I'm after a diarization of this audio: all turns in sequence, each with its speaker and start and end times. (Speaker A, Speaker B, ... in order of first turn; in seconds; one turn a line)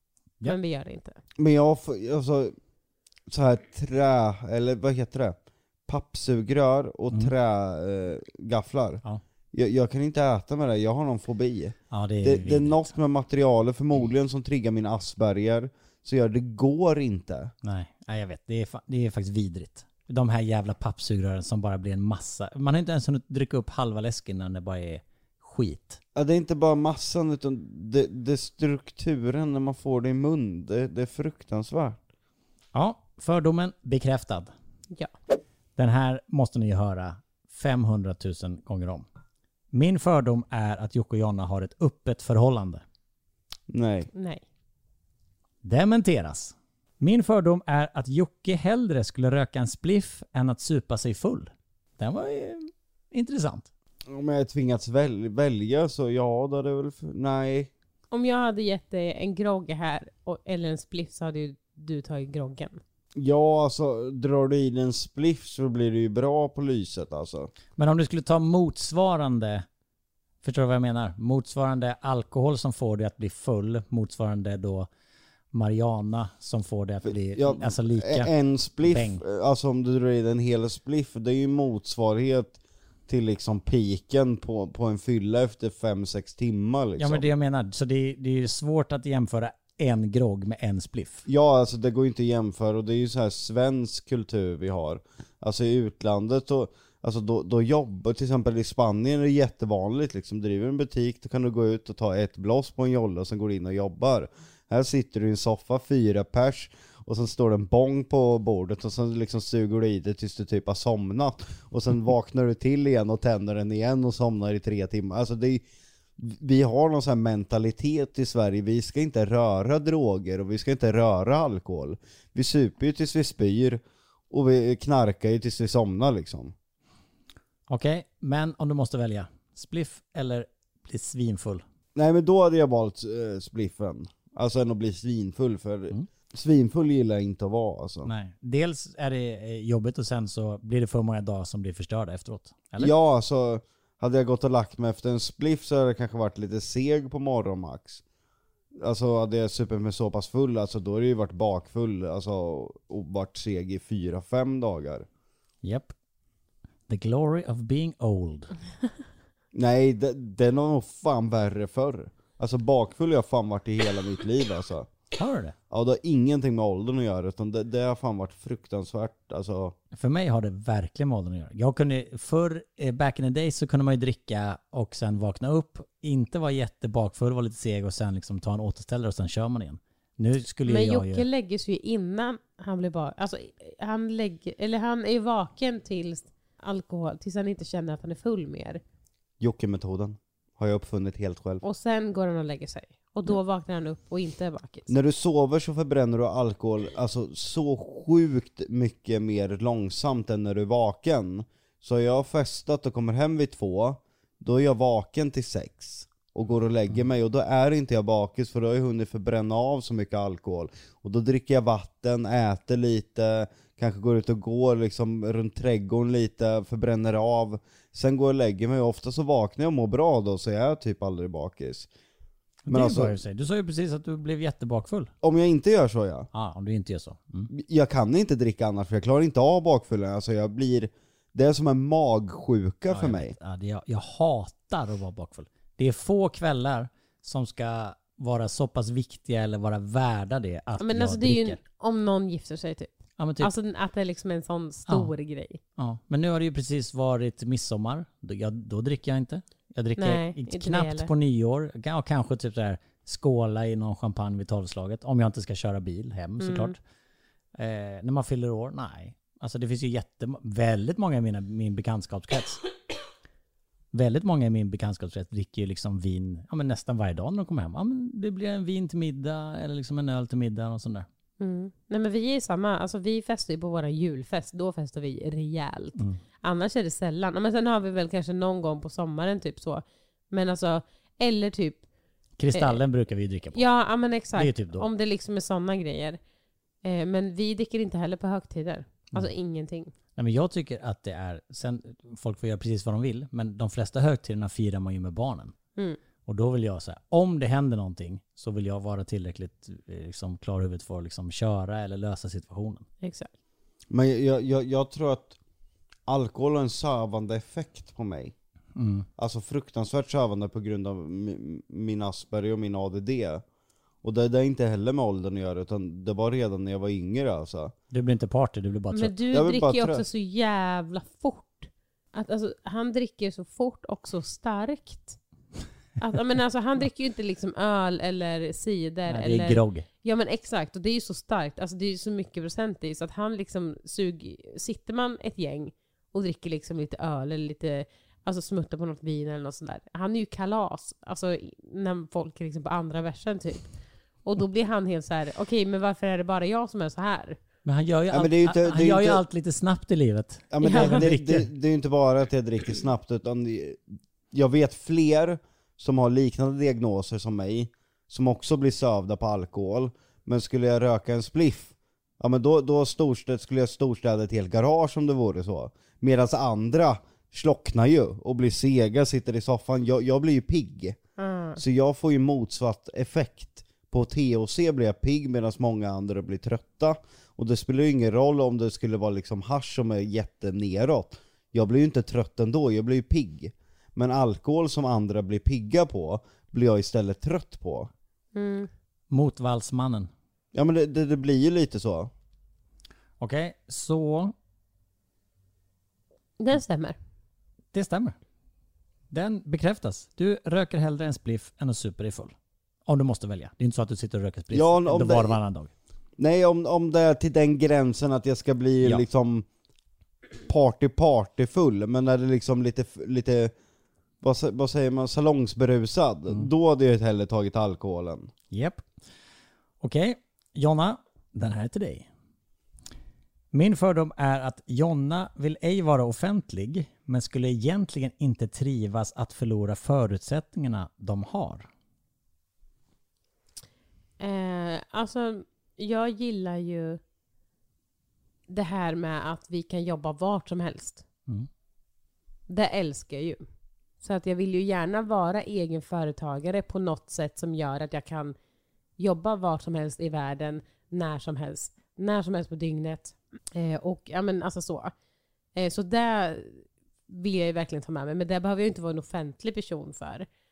Speaker A: 0.4-1.2
Speaker B: 1.4-2.5
Speaker B: 3.3-5.3
Speaker B: 5.9-17.5
Speaker C: 11.9-12.9
Speaker C: 17.6-26.0
Speaker B: 26.1-32.0
Speaker C: 32.7-34.5
Speaker C: 35.8-39.0
Speaker C: 39.7-42.8
Speaker B: 43.7-44.1
Speaker A: 44.1-44.4
Speaker C: 45.6-53.7
Speaker B: 54.1-57.7
Speaker A: 58.1-62.8
Speaker B: 63.1-67.5
Speaker C: 67.8-69.7
Speaker C: 70.4-74.9
Speaker C: 75.5-78.3
Speaker B: 77.0-87.3
Speaker C: 78.8-79.2
Speaker C: 87.0-91.2
Speaker B: 91.3-115.6
Speaker B: 116.2-126.5
Speaker C: 127.7-131.6
Speaker B: 131.9-138.1
Speaker C: 138.0-142.9
Speaker B: 142.8-148.0
Speaker B: 148.8-155.1
Speaker C: 155.6-155.9
Speaker C: 156.9-158.5
Speaker B: 159.5-164.9
Speaker C: 165.1-165.5
Speaker B: 165.7-169.8
Speaker C: 169.9-181.2
Speaker A: 180.7-188.8
Speaker B: 189.4-191.6
Speaker A: 191.6-194.9
Speaker B: 194.9-221.9
Speaker C: 222.6-225.1
Speaker B: 222.7-223.1
Speaker B: 225.2-226.3
Speaker C: 226.3-227.5
Speaker B: 227.5-233.3
Speaker C: 232.9-241.6
Speaker A: 240.8-245.6
Speaker C: 243.2-243.5
Speaker C: 245.8-256.8
Speaker A: 250.0-251.1
Speaker A: 256.4-256.7
Speaker C: 257.6-262.6
Speaker C: 263.9-271.1
Speaker A: 271.4-281.8
Speaker C: 282.4-283.6
Speaker A: 282.5-282.8
Speaker A: 283.5-286.2
Speaker C: 284.3-284.9
Speaker A: 286.8-289.9
Speaker C: 290.1-295.5
Speaker C: 296.2-302.8
Speaker A: 303.0-303.3
Speaker B: 303.9-305.4
Speaker B: 306.1-308.3
Speaker C: 308.7-309.1
Speaker B: 309.2-313.4
Speaker B: 314.0-317.7
Speaker C: 317.9-319.2
Speaker A: 318.9-325.2
Speaker B: 319.3-320.0
Speaker A: 326.0-343.7
Speaker C: 329.1-329.9
Speaker A: 344.2-347.4
Speaker C: 347.6-351.5
Speaker B: 348.1-349.2
Speaker B: 350.5-371.0
Speaker A: 350.6-351.0
Speaker A: 371.2-371.6
Speaker B: 371.6-387.9
Speaker A: 388.3-388.7
Speaker C: 389.1-390.1
Speaker B: 390.5-392.1
Speaker C: 393.2-394.3
Speaker A: 396.4-396.9
Speaker C: 397.7-398.1
Speaker C: 399.1-402.3
Speaker C: 402.9-405.7
Speaker B: 404.5-405.4
Speaker B: 406.2-409.4
Speaker B: 410.4-413.5
Speaker B: 414.2-418.3
Speaker C: 418.5-418.8
Speaker C: 419.8-422.1
Speaker C: 423.5-431.7
Speaker A: 434.2-437.0
Speaker A: 438.5-441.0
Speaker A: 442.5-443.4
Speaker A: 444.0-448.4
Speaker A: 449.0-454.9
Speaker A: 455.5-460.3